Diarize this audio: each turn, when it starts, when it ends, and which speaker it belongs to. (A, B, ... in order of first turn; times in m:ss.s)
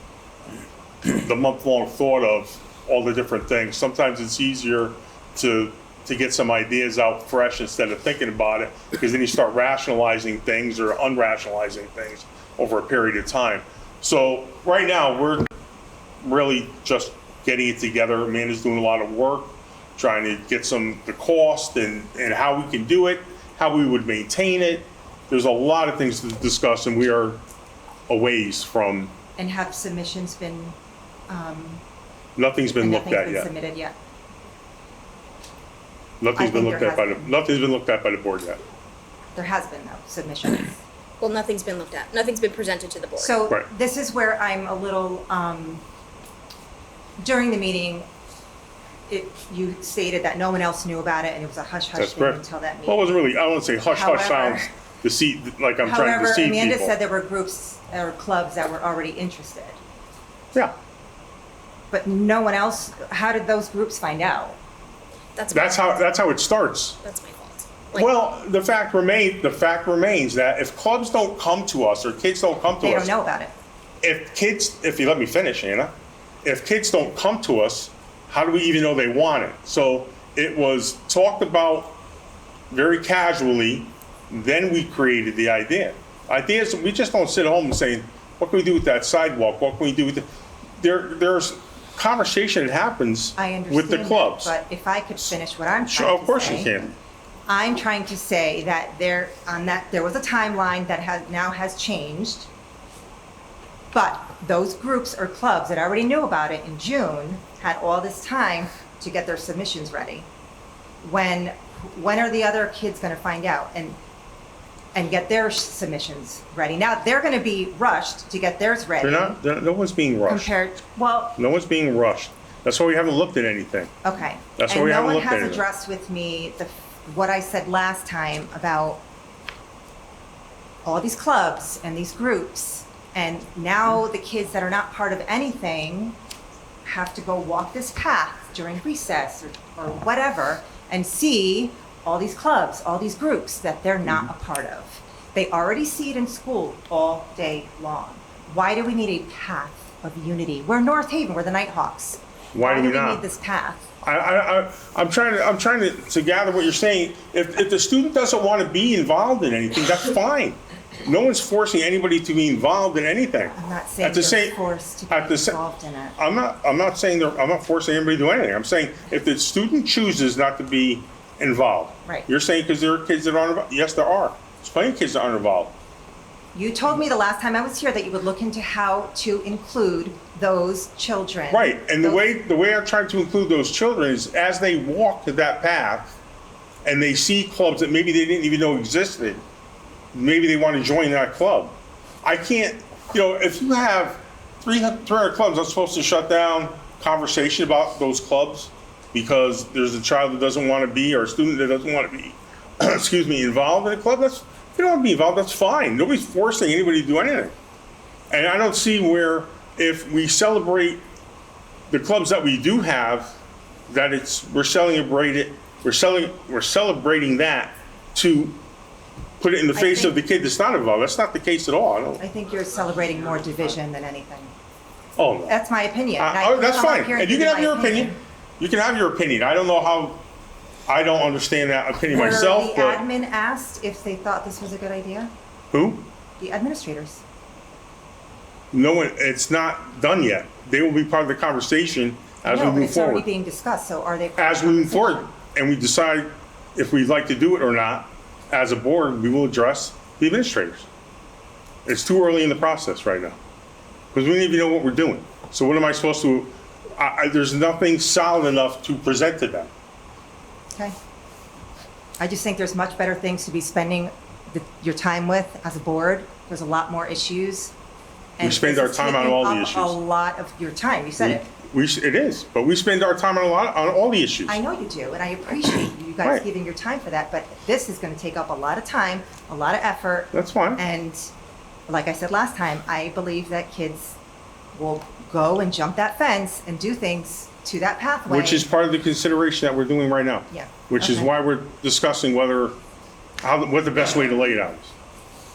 0:01.0-0:15.5 A
0:16.2-0:27.4 A
0:28.1-0:29.2 A
0:29.4-0:30.8 B
0:31.3-0:31.8 B
0:32.4-0:33.5 A
0:32.8-0:33.9 B
0:36.2-0:38.6 A
0:36.4-0:37.4 B
0:39.4-0:40.8 B
0:41.2-0:43.4 C
0:43.2-0:45.8 B
0:47.2-0:48.1 B
0:49.1-0:53.2 B
0:52.0-0:57.0 A
0:53.9-0:54.7 B
0:55.8-0:59.8 B
1:01.9-1:04.6 B
1:05.4-1:05.8 C
1:05.5-1:07.0 A
1:07.0-1:08.0 C
1:07.9-1:13.1 A
1:12.8-1:13.5 B
1:14.0-1:22.0 A
1:22.7-1:30.3 A
1:30.8-1:34.5 A
1:33.4-1:36.7 B
1:35.8-1:36.9 A
1:37.5-1:42.5 B
1:43.9-1:50.3 B
1:51.0-1:54.0 B
1:55.0-1:59.4 B
1:59.0-2:00.5 A
2:00.3-2:01.4 B
2:01.4-2:03.9 A
2:04.0-2:09.0 B
2:04.6-2:05.6 A
2:10.8-2:16.2 B
2:16.8-2:33.8 B
2:32.5-2:33.2 A
2:34.0-2:44.6 A
2:43.6-2:46.2 B
2:45.1-2:45.6 A
2:46.2-2:55.7 A
2:56.5-3:02.3 B
3:01.5-3:06.2 A
3:06.8-3:09.4 A
3:10.1-3:27.6 A
3:28.3-3:31.0 A
3:31.9-3:33.4 A
3:33.9-3:38.6 A
3:39.4-3:42.2 A
3:42.2-3:44.5 B
3:45.2-3:45.6 A
3:45.5-3:48.2 B
3:46.2-3:50.2 A
3:50.9-3:53.0 A
3:52.0-3:55.3 B
3:55.7-3:56.1 A
3:56.4-3:57.2 B
3:58.7-4:03.2 A
4:02.4-4:05.3 B
4:04.4-4:10.9 A
4:11.9-4:13.4 A
4:14.1-4:19.7 A
4:22.2-4:27.7 B
4:28.4-4:31.5 B
4:28.4-4:30.0 A
4:31.2-4:34.6 A
4:34.5-4:41.3 B
4:40.3-4:40.8 A
4:41.9-4:44.2 B
4:44.8-4:48.7 B
4:48.3-4:52.8 A
4:50.5-4:51.3 B
4:53.4-4:54.9 A